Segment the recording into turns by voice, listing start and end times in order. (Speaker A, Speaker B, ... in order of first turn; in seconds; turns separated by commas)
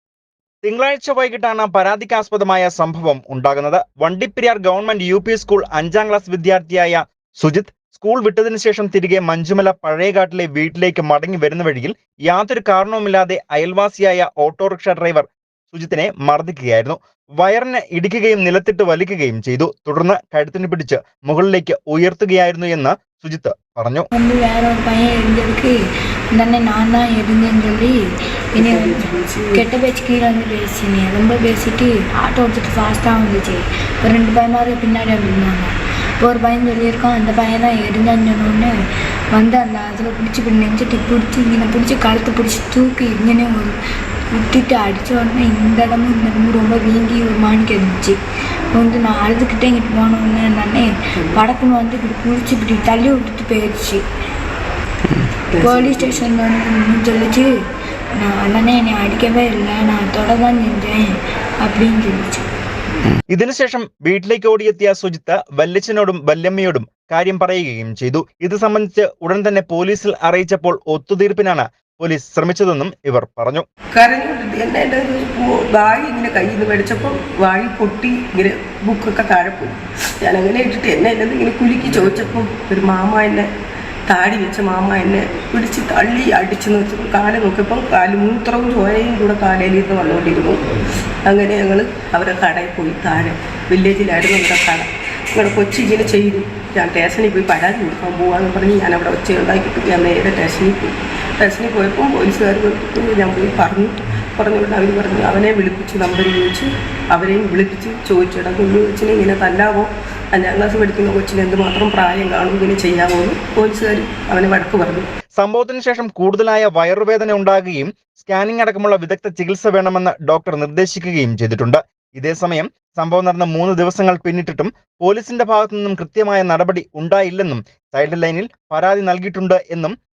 Speaker A: 0.6-24.1, Speaker B: 24.1-25.7, Speaker B: 26.3-28.0, Speaker B: 28.5-35.7, Speaker C: 28.6-29.6, Speaker B: 36.2-38.7, Speaker B: 39.3-43.8, Speaker B: 44.3-48.2, Speaker B: 48.7-54.0, Speaker C: 55.5-56.2, Speaker B: 55.6-57.5, Speaker B: 58.2-61.1, Speaker B: 61.6-62.4, Speaker A: 63.3-73.7, Speaker C: 73.9-83.5, Speaker C: 84.1-115.1, Speaker A: 115.4-129.9